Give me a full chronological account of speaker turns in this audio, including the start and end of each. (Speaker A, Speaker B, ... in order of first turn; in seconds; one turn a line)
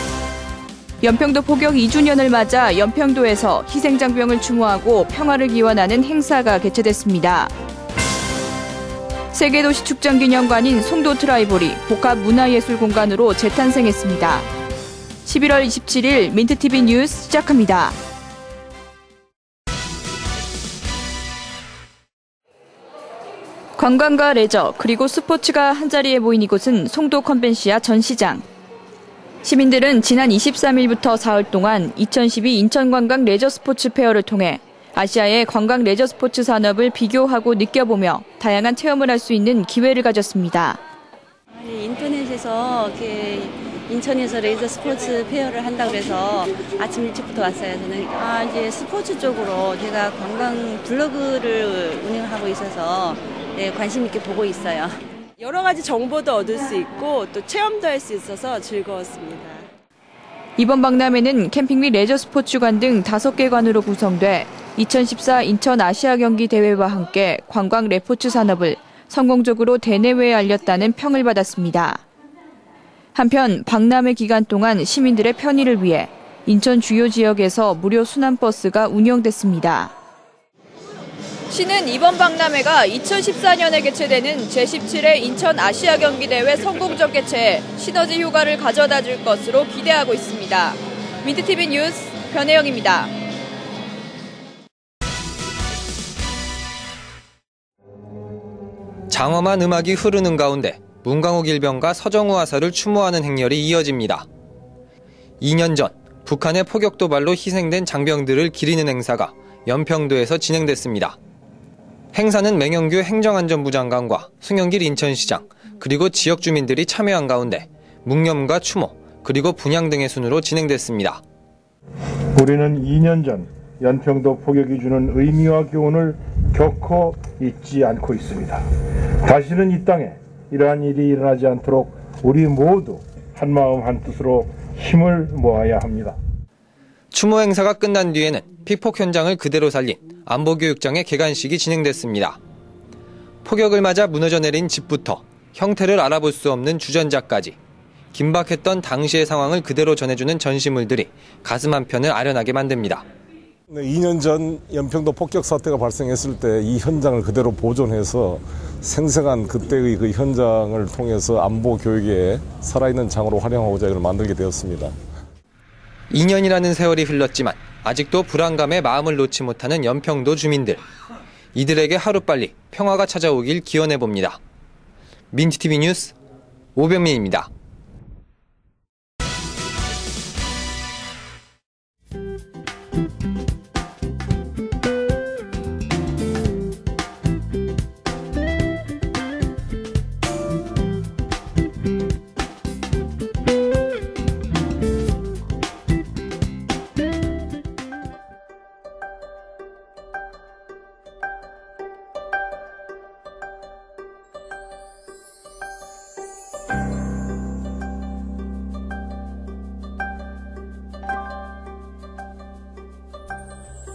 Speaker A: 1.0-7.5
Speaker A: 9.3-14.5
Speaker A: 15.2-18.0
Speaker A: 23.8-28.4
Speaker A: 29.4-40.8
Speaker B: 41.6-55.0
Speaker C: 55.4-59.6
Speaker A: 60.6-72.0
Speaker A: 73.1-79.9
Speaker A: 81.5-93.1
Speaker D: 99.1-104.3
Speaker D: 105.4-111.2
Speaker D: 112.1-121.2
Speaker E: 122.3-128.6
Speaker E: 129.2-136.2
Speaker D: 137.1-142.4
Speaker D: 143.4-147.6
Speaker D: 148.1-153.0
Speaker F: 153.7-164.9
Speaker D: 166.1-170.8
Speaker D: 171.5-174.4
Speaker D: 175.3-176.1
Speaker D: 176.8-177.5